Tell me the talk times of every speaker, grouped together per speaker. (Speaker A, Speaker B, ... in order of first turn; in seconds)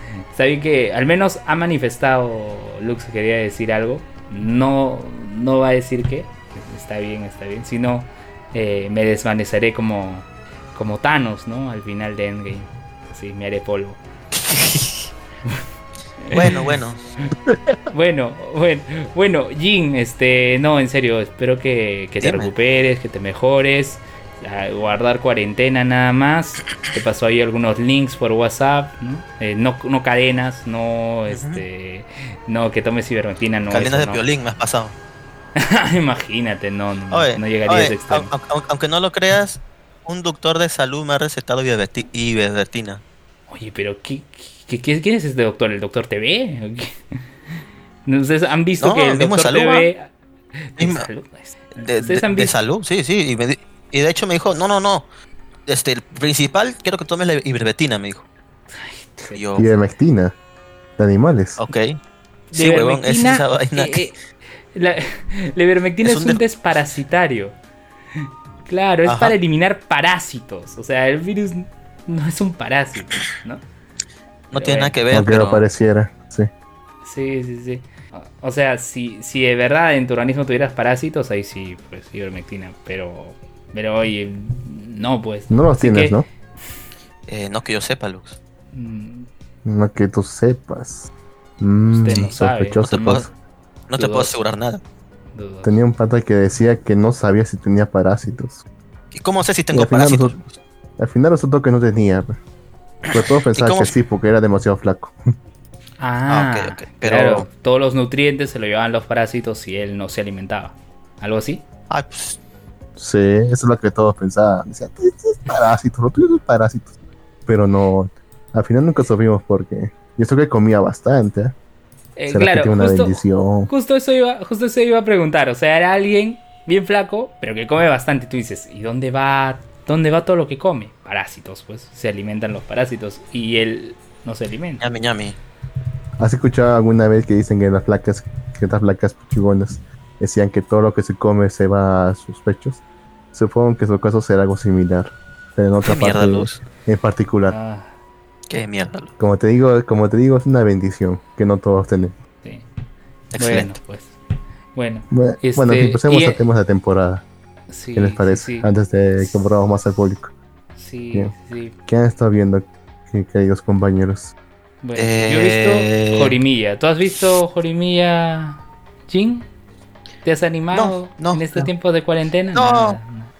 Speaker A: 0.3-14.0, 16.2-16.6, 17.9-34.2, 35.6-38.3, 43.5-47.2, 48.0-50.1, 50.6-52.5, 58.7-59.4, 62.5-64.2, 64.7-67.5, 68.7-73.6, 74.5-74.9, 77.0-86.2, 88.7-89.3, 91.9-92.8, 93.9-94.4, 95.3-95.8, 106.0-111.6, 122.2-134.8, 147.5-147.9, 153.4-154.1, 154.7-156.4, 157.7-158.7, 160.8-161.7, 164.8-169.5, 170.2-173.3
Speaker B: 14.4-15.1, 16.3-17.1, 22.2-22.5, 31.3-31.6, 33.7-34.9, 37.1-43.0, 48.8-49.9, 50.8-51.1, 51.7-55.1, 55.6-58.3, 59.3-59.7, 61.6-62.0, 62.5-64.1, 66.0-66.4, 69.0-69.3, 74.5-75.7, 87.3-88.4, 92.8-93.3, 93.9-94.8, 99.1-100.6, 103.5-103.9, 106.3-107.5, 111.9-112.4, 134.8-135.4, 145.8-146.6, 148.5-149.1, 153.3-153.8, 164.9-166.4, 170.7-171.7, 172.5-173.0
Speaker C: 59.5-60.3, 61.0-61.6, 75.1-76.5, 85.5-86.2, 89.6-93.3, 95.6-98.6, 99.7-100.3, 101.0-102.4, 103.1-105.2, 113.0-116.9, 117.5-121.6, 122.3-123.7, 136.2-142.8, 143.3-147.6, 149.2-152.2, 155.1-157.2, 157.9-160.3, 161.9-164.3